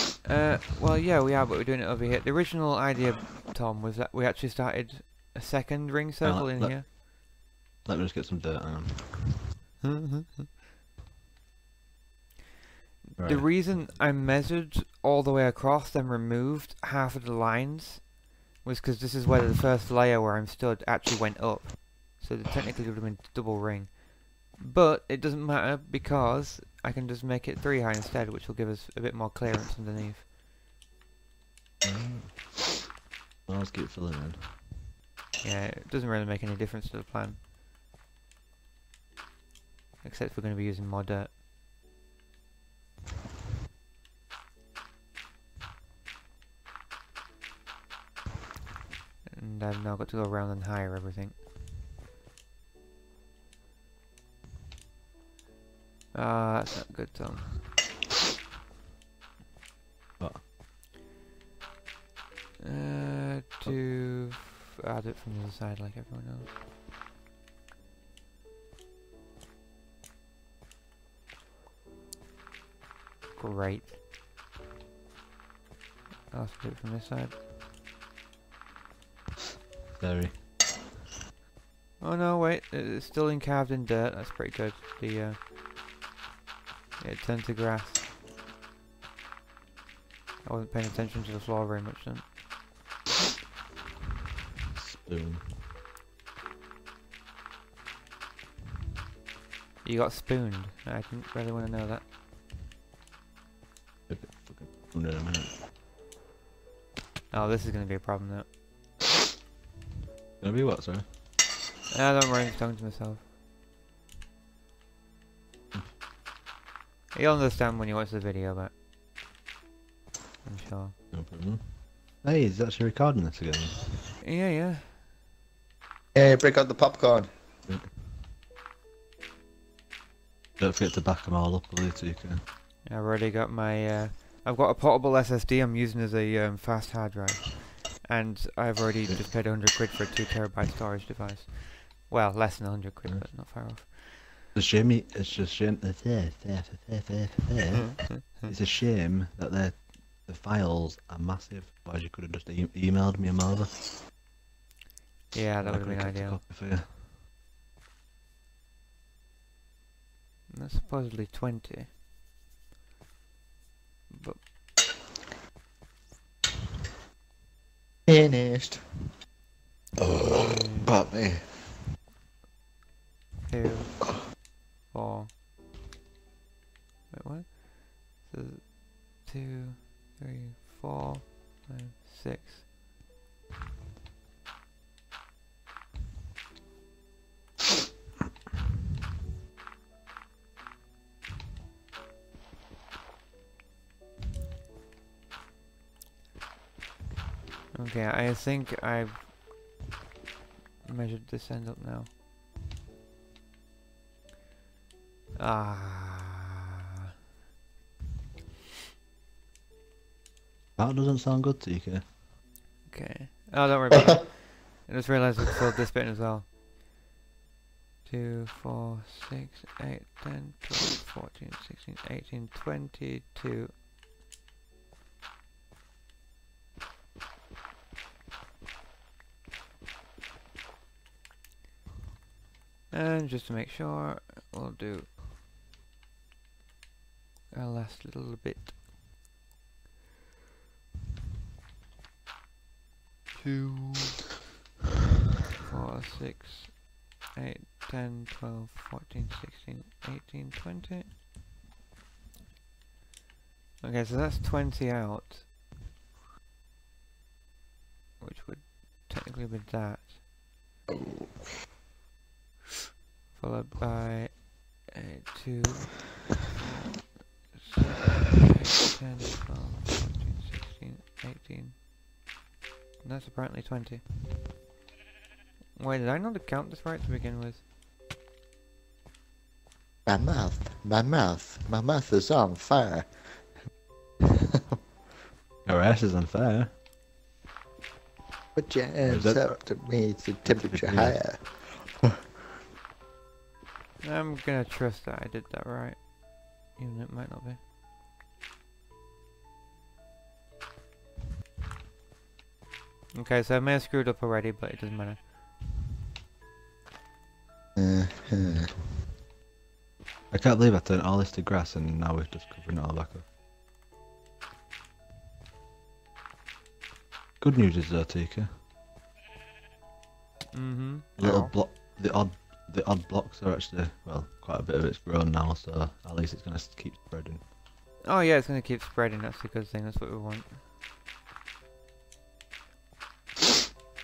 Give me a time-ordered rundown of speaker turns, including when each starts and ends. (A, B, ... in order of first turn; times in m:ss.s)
0:00.2-0:06.9 A
0:06.2-0:07.0 B
0:07.8-0:09.5 B
0:09.8-0:10.5 A
0:13.1-0:30.2 A
0:13.2-0:13.8 B
0:31.8-0:32.6 B
0:33.5-0:34.7 B
0:35.4-0:37.4 A
0:40.0-0:41.3 A
0:49.2-0:51.4 A
0:56.1-0:57.5 A
1:02.6-1:06.5 A
1:13.4-1:13.9 A
1:16.3-1:17.3 A
1:19.9-1:20.4 B
1:22.0-1:25.4 A
1:27.0-1:28.0 A
1:30.4-1:32.3 A
1:34.8-1:35.5 B
1:39.8-1:42.0 A
1:44.1-1:45.5 B
1:47.3-1:48.5 A
1:50.4-1:51.0 B
1:51.9-1:53.2 A
1:57.1-1:58.7 A
2:00.4-2:00.9 A
2:01.1-2:03.8 B
2:04.2-2:05.0 A
2:06.1-2:07.3 C
2:10.6-2:12.4 B
2:12.8-2:24.4 A
2:23.0-2:23.8 B
2:24.5-2:33.7 B
2:35.3-2:36.4 A
2:35.6-2:36.9 B
2:40.5-2:41.9 A
2:44.1-2:44.4 A
2:48.1-2:48.8 C
2:50.1-2:51.5 C
2:50.2-2:50.9 A
2:53.5-2:54.0 A
2:54.9-2:55.3 A
2:57.1-3:02.6 A
3:17.7-3:19.3 A
3:20.8-3:22.1 A
3:25.4-3:26.6 A
3:30.8-3:32.0 B
3:32.9-3:36.5 A
3:38.0-3:43.7 A
3:52.9-3:55.1 A
3:57.5-3:58.7 A
4:03.3-4:04.2 A
4:05.6-4:11.1 A
4:13.8-4:15.4 A
4:18.2-4:20.1 A
4:23.3-4:31.8 A
4:33.0-4:34.0 A
4:35.7-4:37.6 A
4:40.0-4:43.5 C
4:45.6-4:46.7 B
4:48.5-4:52.0 C
4:49.0-4:49.5 B
4:50.4-4:51.4 B
4:54.0-4:57.6 A
5:03.1-5:05.2 A
5:07.8-5:08.7 C
5:08.4-5:09.0 B
5:10.3-5:13.2 B
5:17.4-5:18.5 B
5:20.5-5:21.5 A
5:21.2-5:27.4 B
5:28.0-5:30.5 A